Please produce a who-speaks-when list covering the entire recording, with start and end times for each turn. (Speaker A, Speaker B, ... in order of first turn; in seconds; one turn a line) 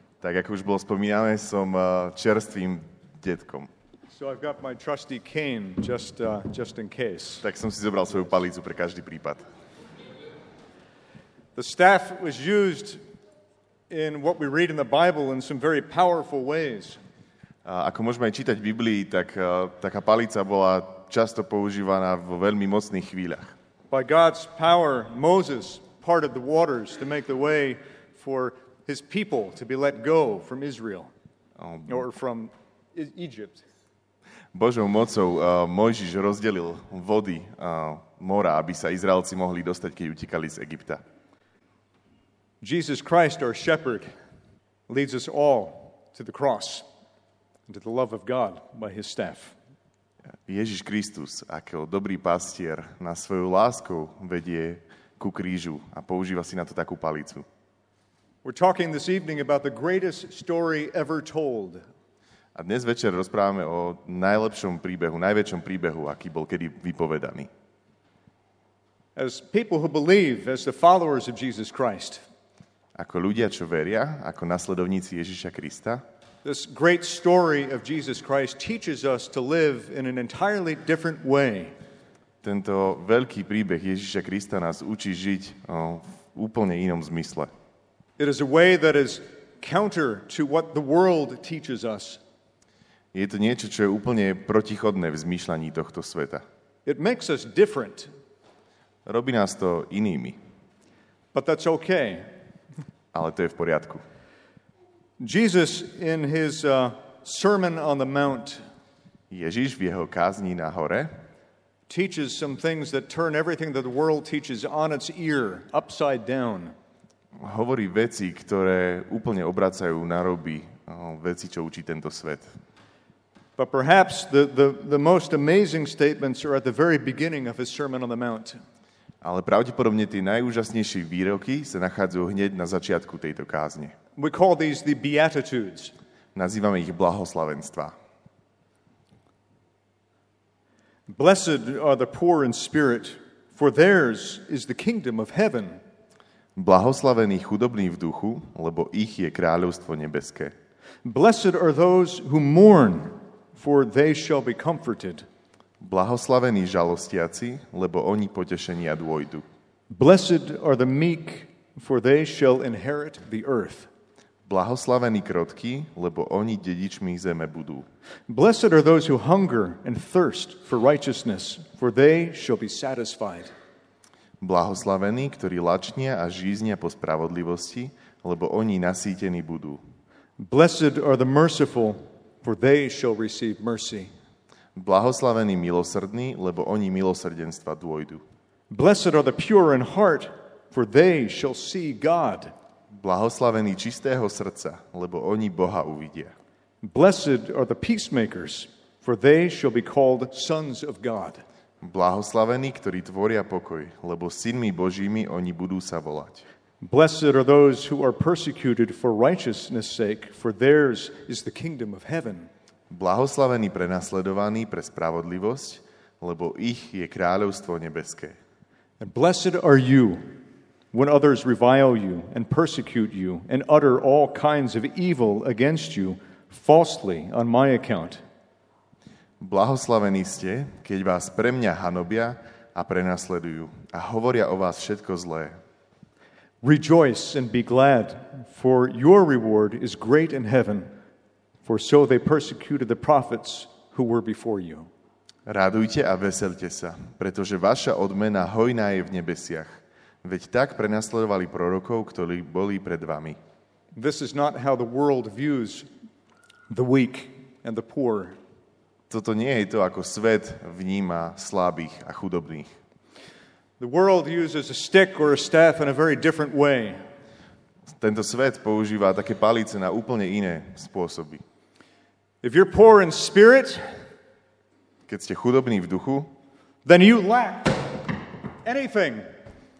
Speaker A: 0.2-3.7
Speaker B: 4.1-7.4
Speaker A: 7.4-9.4
Speaker B: 11.6-13.0
Speaker B: 13.9-17.0
Speaker A: 17.6-23.5
Speaker B: 23.9-31.1
Speaker A: 31.6-32.0
Speaker B: 31.9-33.6
Speaker A: 34.5-41.0
Speaker B: 42.6-44.1
Speaker B: 44.9-46.8
Speaker B: 47.7-49.5
Speaker A: 50.5-57.5
Speaker B: 58.4-61.8
Speaker A: 62.5-67.5
Speaker B: 69.2-72.2
Speaker A: 73.0-76.0
Speaker B: 76.4-81.7
Speaker A: 82.4-87.5
Speaker B: 88.2-92.2
Speaker A: 93.1-96.4
Speaker B: 96.8-98.1
Speaker A: 99.0-100.4
Speaker B: 101.3-102.2
Speaker A: 103.1-104.0
Speaker B: 105.2-108.6
Speaker A: 109.3-111.1
Speaker B: 111.9-116.7
Speaker A: 117.4-122.5
Speaker B: 123.6-128.6
Speaker A: 129.2-133.9
Speaker B: 134.2-135.9
Speaker A: 136.3-137.9
Speaker B: 141.1-145.8
Speaker A: 146.6-150.5
Speaker B: 151.0-155.2
Speaker A: 155.8-159.4
Speaker B: 159.9-163.9
Speaker A: 164.5-167.8
Speaker B: 168.3-173.5
Speaker A: 174.4-179.8
Speaker B: 180.4-184.1
Speaker A: 184.8-188.2
Speaker B: 188.7-192.5
Speaker A: 193.0-196.3
Speaker B: 196.8-201.4
Speaker A: 201.8-206.4
Speaker B: 206.8-212.5
Speaker A: 212.9-218.4
Speaker B: 219.0-220.2
Speaker B: 220.9-228.2
Speaker A: 229.4-235.5
Speaker B: 236.6-240.9
Speaker B: 241.6-244.9
Speaker A: 245.5-249.7
Speaker A: 250.2-253.4
Speaker B: 253.9-255.9
Speaker B: 256.7-258.4
Speaker A: 259.1-262.7
Speaker B: 263.8-267.0
Speaker A: 268.0-271.4
Speaker B: 272.4-273.8
Speaker A: 275.1-276.3
Speaker B: 276.8-278.1
Speaker B: 278.6-279.2